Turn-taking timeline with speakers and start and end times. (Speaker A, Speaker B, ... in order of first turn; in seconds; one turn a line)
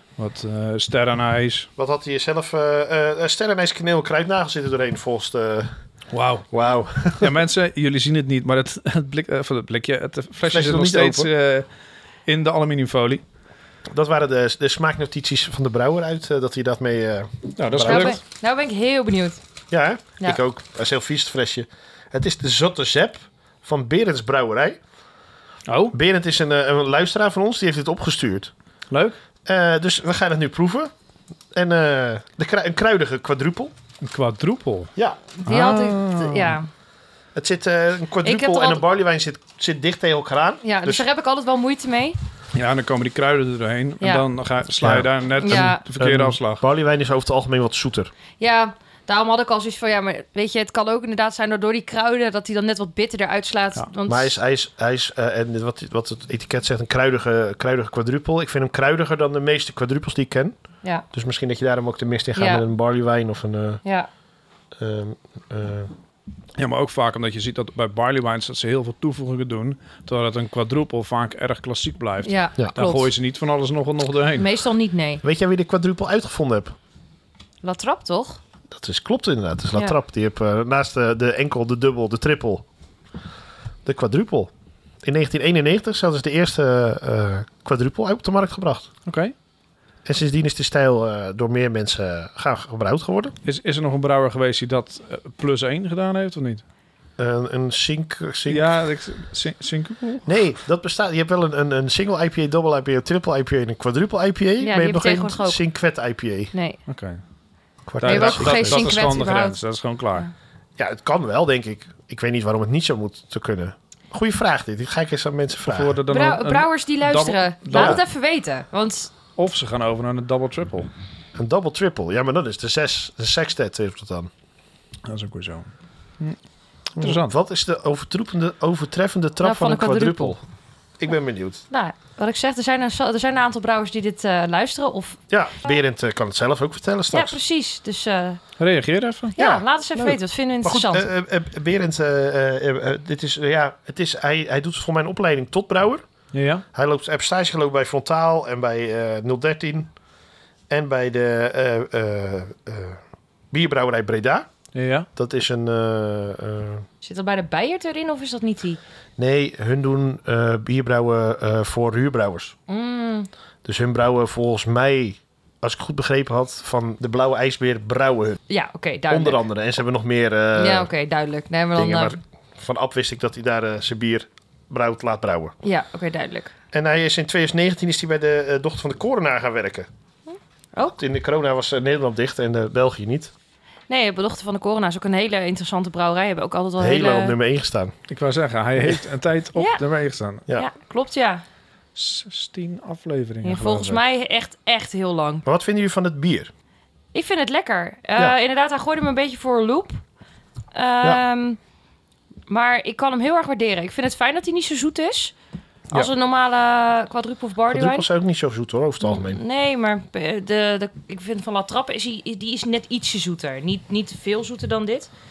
Speaker A: 0.2-1.7
Speaker B: 1.8-5.7
Speaker A: 6.1-6.5
Speaker B: 6.5-7.3
Speaker A: 7.2-11.7
Speaker B: 10.5-11.3
Speaker A: 12.3-13.2
Speaker B: 13.9-18.2
Speaker A: 17.6-18.2
Speaker C: 17.8-19.4
Speaker B: 19.7-24.8
Speaker A: 25.7-25.9
Speaker B: 25.9-28.5
Speaker A: 28.9-29.2
Speaker B: 29.5-30.9
Speaker B: 31.5-33.7
Speaker A: 34.0-34.9
Speaker B: 35.0-35.2
Speaker C: 35.4-36.7
Speaker A: 35.4-36.6
Speaker B: 37.4-41.0
Speaker C: 38.2-38.8
Speaker C: 40.6-42.2
Speaker A: 42.5-46.6
Speaker B: 44.8-48.1
Speaker C: 45.4-45.8
Speaker C: 48.4-54.4
Speaker B: 54.1-60.6
Speaker B: 61.1-63.8
Speaker C: 62.4-62.6
Speaker C: 63.8-64.1
Speaker B: 64.8-65.9
Speaker A: 66.6-74.5
Speaker C: 72.2-73.1
Speaker C: 74.3-75.2
Speaker B: 75.2-76.8
Speaker C: 77.6-78.4
Speaker B: 78.7-82.6
Speaker B: 83.8-84.5
Speaker B: 85.0-88.9
Speaker A: 89.1-89.3
Speaker B: 90.0-93.3
Speaker A: 93.5-96.6
Speaker B: 97.2-98.7
Speaker A: 98.5-100.3
Speaker B: 100.2-106.5
Speaker C: 104.6-105.6
Speaker C: 106.5-106.8
Speaker A: 106.9-107.2
Speaker B: 107.9-109.0
Speaker A: 108.0-110.3
Speaker C: 108.0-109.6
Speaker B: 110.8-116.0
Speaker A: 115.7-118.0
Speaker C: 116.1-119.1
Speaker B: 117.7-118.0
Speaker A: 119.4-120.9
Speaker B: 121.4-124.3
Speaker A: 125.0-125.7
Speaker A: 127.0-127.3
Speaker B: 127.0-130.4
Speaker C: 129.4-130.3
Speaker B: 131.0-131.6
Speaker C: 131.7-135.2
Speaker B: 135.3-137.4
Speaker C: 137.1-138.4
Speaker A: 138.6-139.3
Speaker C: 139.3-141.1
Speaker B: 139.4-139.6
Speaker B: 140.6-146.1
Speaker A: 146.3-146.6
Speaker B: 146.7-149.9
Speaker B: 150.7-153.0
Speaker B: 153.5-154.5
Speaker A: 154.7-155.1
Speaker B: 155.2-156.8
Speaker C: 157.0-158.8
Speaker B: 159.2-162.5
Speaker C: 162.7-163.3
Speaker B: 163.6-168.4
Speaker C: 168.5-169.4
Speaker B: 169.1-170.9
Speaker C: 170.6-172.2
Speaker B: 171.8-175.6
Speaker C: 175.6-176.5
Speaker B: 176.7-179.9
Speaker C: 180.3-181.0
Speaker B: 180.9-183.3
Speaker C: 183.9-187.4
Speaker B: 186.8-187.9
Speaker A: 188.1-190.5
Speaker C: 189.6-189.8
Speaker C: 190.6-191.4
Speaker A: 191.9-194.0
Speaker C: 193.4-195.4
Speaker B: 195.4-196.5
Speaker C: 197.1-200.0
Speaker C: 200.7-201.6
Speaker C: 202.5-205.3
Speaker C: 205.9-208.1
Speaker B: 207.7-209.4
Speaker C: 209.0-215.1